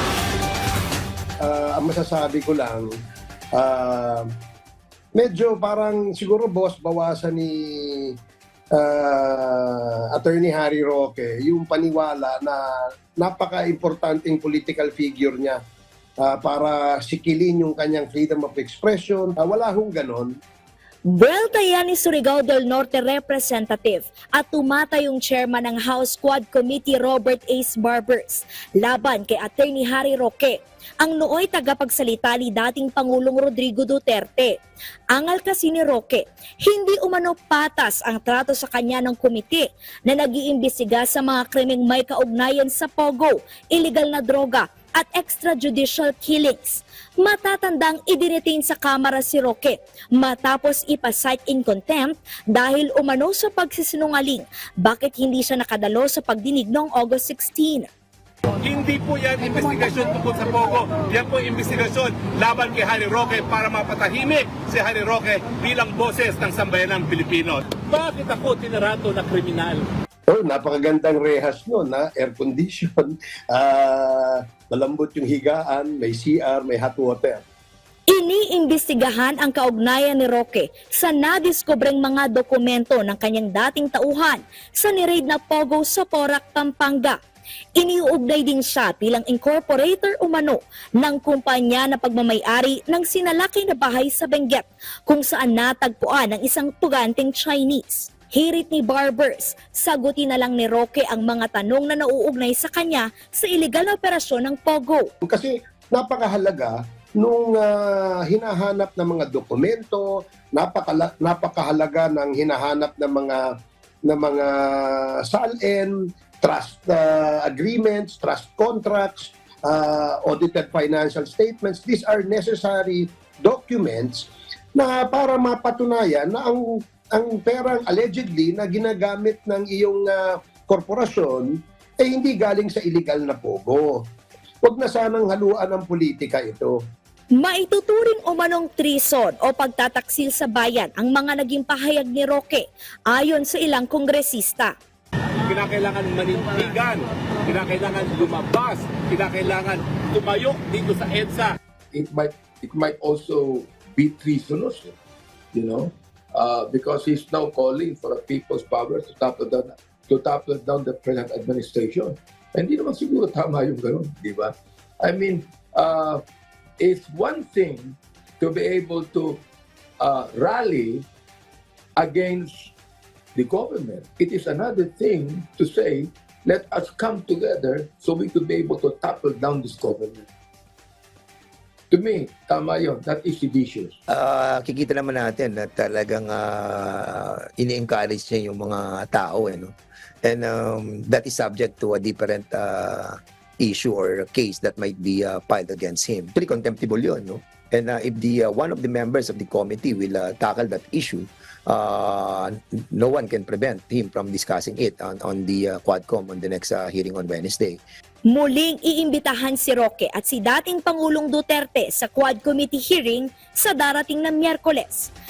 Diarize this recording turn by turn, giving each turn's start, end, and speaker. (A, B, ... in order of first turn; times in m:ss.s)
0:01.4-0:02.9 A
0:03.5-0:04.3 A
0:05.1-0:08.1 A
0:08.7-0:12.6 A
0:13.2-0:15.6 A
0:16.2-0:20.3 A
0:21.1-0:34.5 B
0:35.1-0:57.9 B
0:58.6-1:09.8 C
1:10.3-1:17.4 A
1:18.1-1:27.2 B
1:27.8-1:45.1 B
1:45.2-1:53.4 A
1:54.1-2:14.0 A
2:14.6-2:16.8 A
2:17.4-2:24.7 B
2:25.4-2:31.6 C
2:31.9-2:35.0 D
2:35.5-2:46.2 D
2:46.8-2:49.4 D
2:50.0-2:51.1 D
2:52.0-2:52.7 D
2:53.3-3:00.3 D
3:01.9-3:04.0 D
3:04.1-3:27.8 E
3:28.3-3:35.1 B